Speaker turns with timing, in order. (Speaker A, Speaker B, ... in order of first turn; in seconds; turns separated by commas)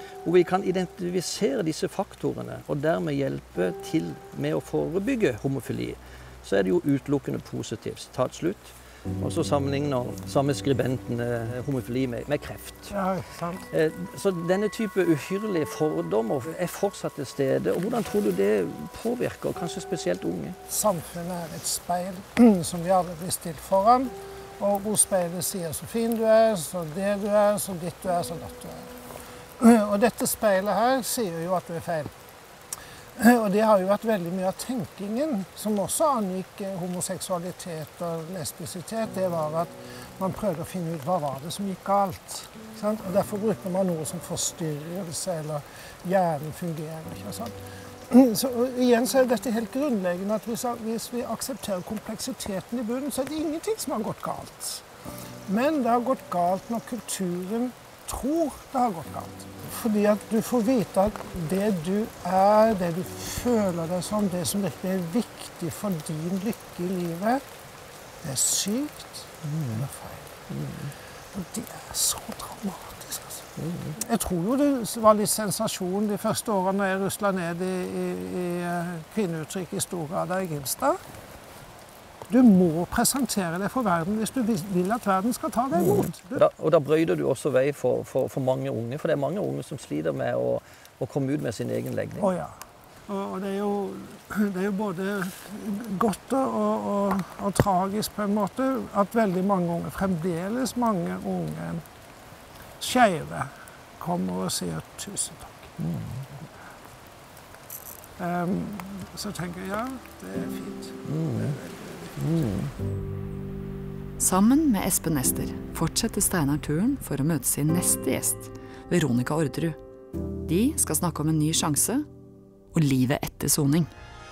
Speaker A: 0.2-12.9, Speaker B: 12.9-13.7, Speaker A: 13.7-20.6, Speaker B: 20.7-28.9, Speaker B: 29.6-32.1, Speaker B: 33.2-54.9, Speaker B: 55.5-67.4, Speaker B: 68.2-70.4, Speaker A: 69.5-69.8, Speaker B: 71.3-81.0, Speaker A: 73.6-73.9, Speaker B: 82.3-86.5, Speaker A: 85.7-92.3, Speaker B: 92.2-92.5, Speaker B: 93.1-101.8, Speaker B: 102.8-105.8, Speaker A: 105.8-106.2, Speaker B: 108.2-112.2, Speaker A: 111.1-111.5, Speaker A: 112.2-112.7, Speaker C: 114.2-119.8, Speaker C: 120.5-122.0, Speaker C: 122.7-123.9